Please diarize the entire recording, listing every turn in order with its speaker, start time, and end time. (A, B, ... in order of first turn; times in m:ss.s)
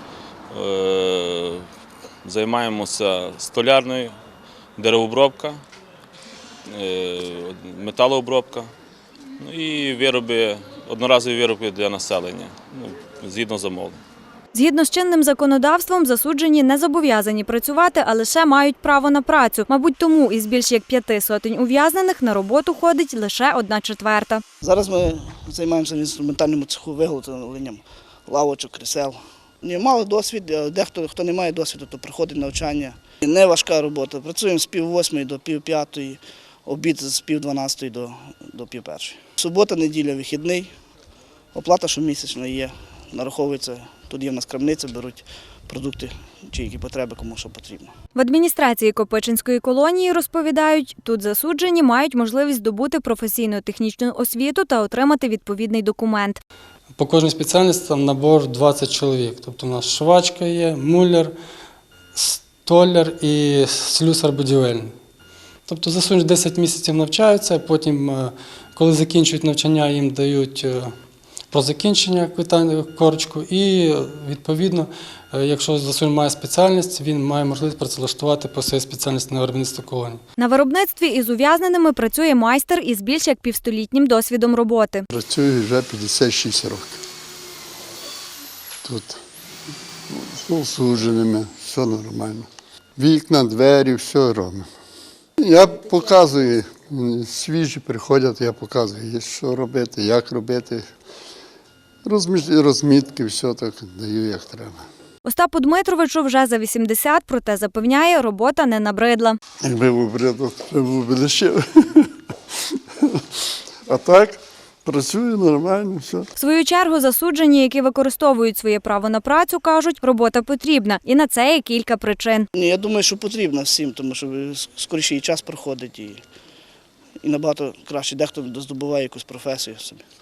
0:00.5-0:01.7 A
0:02.2-0:04.1 A
0:04.8-0:05.6 A
0:06.7-0:08.7 A
0:09.4-0:14.0 A
0:14.5-0:24.4 B
0:24.6-0:40.7 C
0:41.5-0:47.9 C
0:48.2-0:56.4 B
0:56.9-1:01.3 D
1:02.2-1:04.9 D
1:05.7-1:10.9 D
1:11.5-1:20.2 D
1:20.4-1:25.1 B
1:25.1-1:27.0 E
1:28.8-1:29.2 E
1:30.1-1:34.7 E
1:35.4-1:40.8 E
1:42.0-1:44.8 E
1:45.2-1:49.4 B
1:49.6-1:52.1 E
1:52.7-1:53.2 E
1:53.8-1:56.3 E
1:56.4-2:02.5 B
2:02.5-2:06.2 C
2:07.2-2:10.0 C